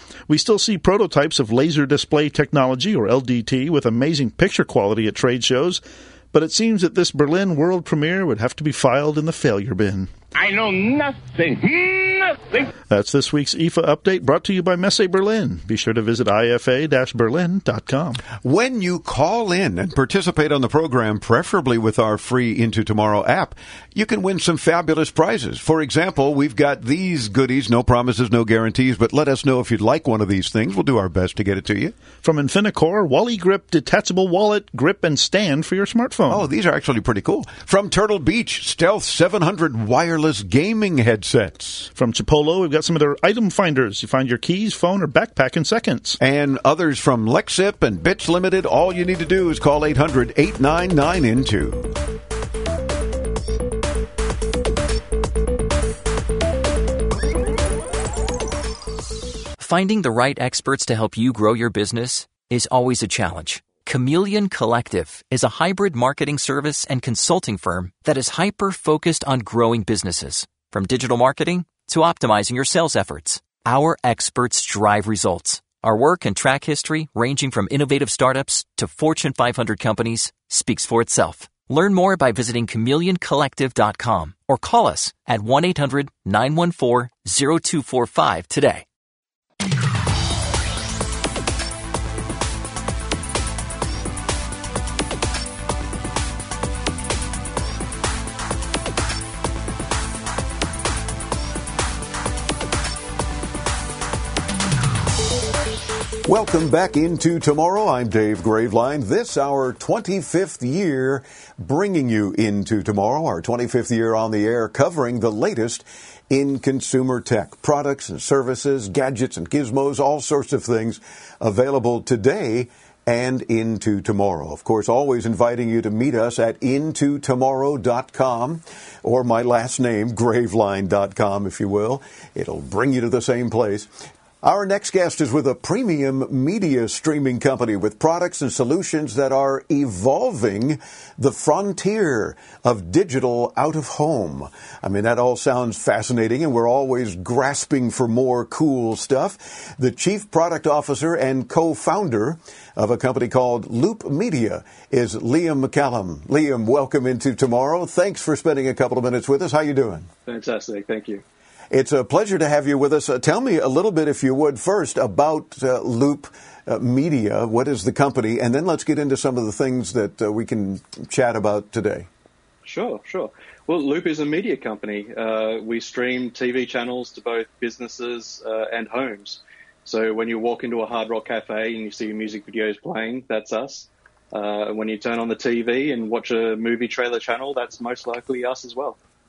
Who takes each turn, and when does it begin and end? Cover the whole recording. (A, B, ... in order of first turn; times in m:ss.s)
0:00.3-0:05.8 A
0:06.3-0:10.1 A
0:10.4-0:12.7 B
0:12.9-0:18.2 A
0:18.4-0:32.0 C
0:32.2-0:36.4 A
0:36.3-0:41.9 C
0:42.0-0:46.2 A
0:46.2-0:51.9 C
0:59.6-1:28.8 D
1:46.3-2:13.9 C
2:14.4-2:40.1 C
2:40.3-2:41.2 E
2:41.7-2:52.1 C
2:52.6-3:09.0 E